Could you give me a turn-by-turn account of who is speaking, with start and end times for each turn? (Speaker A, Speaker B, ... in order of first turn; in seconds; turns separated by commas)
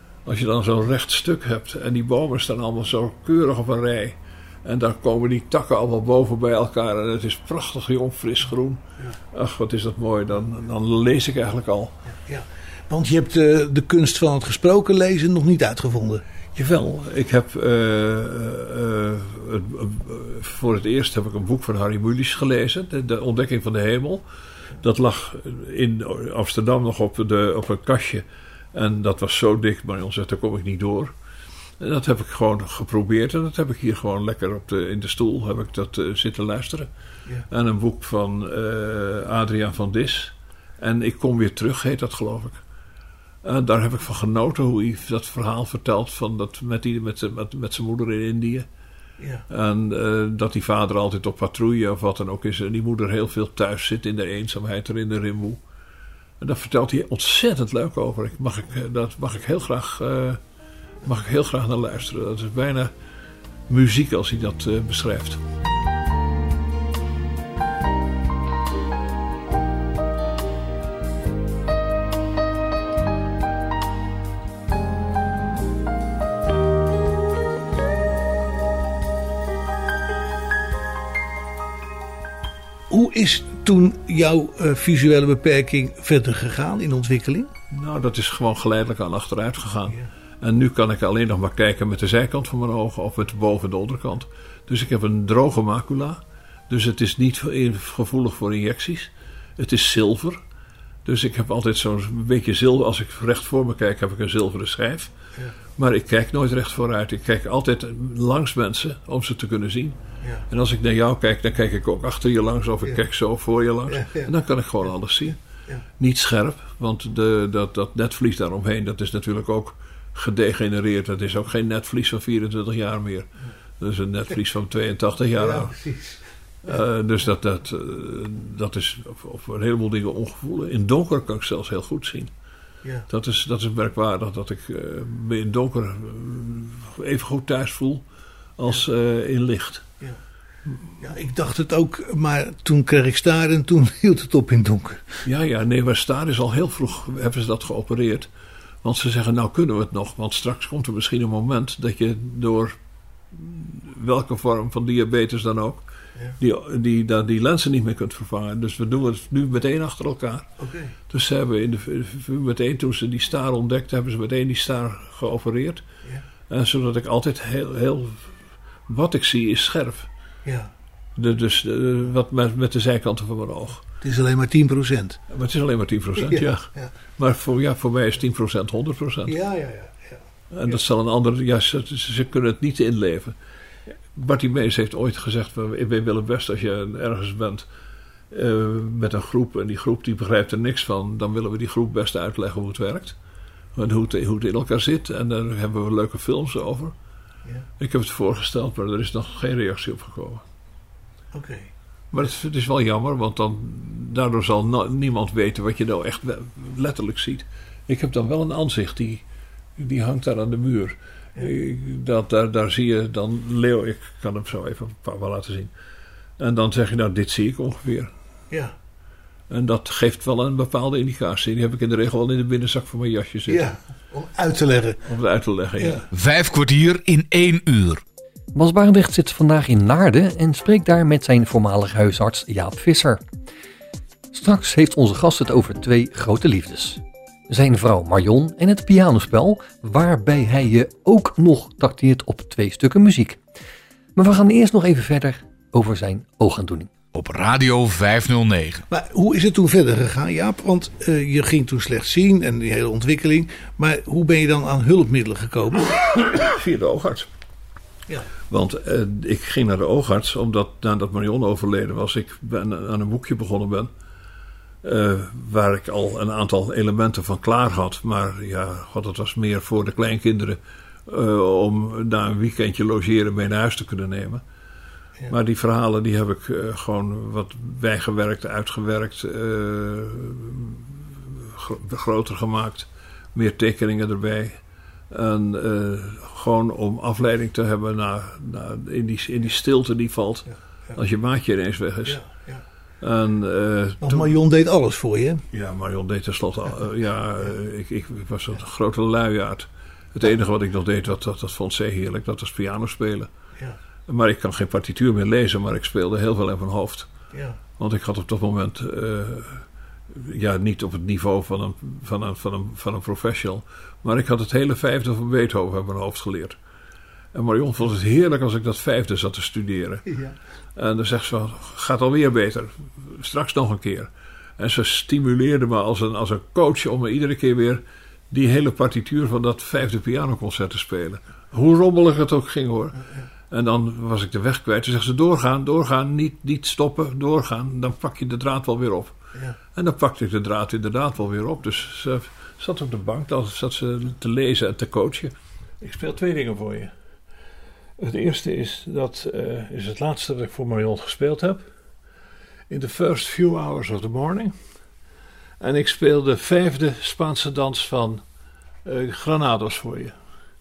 Speaker A: 0.2-11.9, Speaker B: 12.1-16.2, Speaker A: 16.5-24.2, Speaker A: 24.8-31.1, Speaker A: 31.8-36.9, Speaker A: 37.5-42.6, Speaker A: 43.4-48.7, Speaker A: 49.5-55.6, Speaker A: 56.4-60.4, Speaker A: 61.0-62.9, Speaker A: 63.7-65.4, Speaker B: 82.9-87.5, Speaker A: 87.7-100.4, Speaker A: 101.0-105.1, Speaker A: 105.8-110.0, Speaker A: 110.5-115.4, Speaker B: 113.9-114.3, Speaker A: 116.0-125.7, Speaker B: 125.3-126.8, Speaker A: 126.6-132.3, Speaker A: 133.1-138.0, Speaker A: 138.6-139.8, Speaker B: 141.0-145.1, Speaker A: 145.2-148.3, Speaker A: 148.8-152.8, Speaker A: 153.3-155.8, Speaker A: 156.4-160.5, Speaker B: 160.6-160.9, Speaker A: 161.1-165.8, Speaker A: 166.5-168.3, Speaker A: 168.9-170.1, Speaker B: 170.4-170.7, Speaker A: 171.2-173.8, Speaker B: 174.0-175.2, Speaker A: 175.3-179.3, Speaker B: 176.2-176.9, Speaker B: 179.3-180.8, Speaker A: 180.5-183.3, Speaker A: 184.1-187.7, Speaker A: 188.3-193.2, Speaker A: 193.7-196.9, Speaker A: 197.8-200.4, Speaker B: 201.3-202.3, Speaker A: 202.1-209.2, Speaker A: 209.8-215.7, Speaker A: 216.4-218.1, Speaker A: 219.5-223.7, Speaker B: 223.5-225.0, Speaker A: 225.1-226.1, Speaker C: 226.1-228.0, Speaker D: 228.5-233.2, Speaker D: 234.3-243.4, Speaker D: 244.2-246.9, Speaker C: 247.1-248.8, Speaker B: 248.9-256.0, Speaker A: 256.1-257.3, Speaker A: 258.5-263.9, Speaker A: 264.8-274.4, Speaker A: 275.3-284.6, Speaker A: 285.1-292.2, Speaker B: 292.1-292.6, Speaker A: 293.0-294.3, Speaker B: 294.0-295.4, Speaker A: 295.5-303.3, Speaker A: 304.1-307.1, Speaker B: 307.3-307.6, Speaker A: 307.8-316.6, Speaker A: 317.3-320.1, Speaker B: 320.1-320.3, Speaker A: 320.8-339.1, Speaker A: 339.7-346.9, Speaker A: 348.0-351.7, Speaker A: 352.7-354.7, Speaker A: 355.6-358.2, Speaker A: 358.8-360.1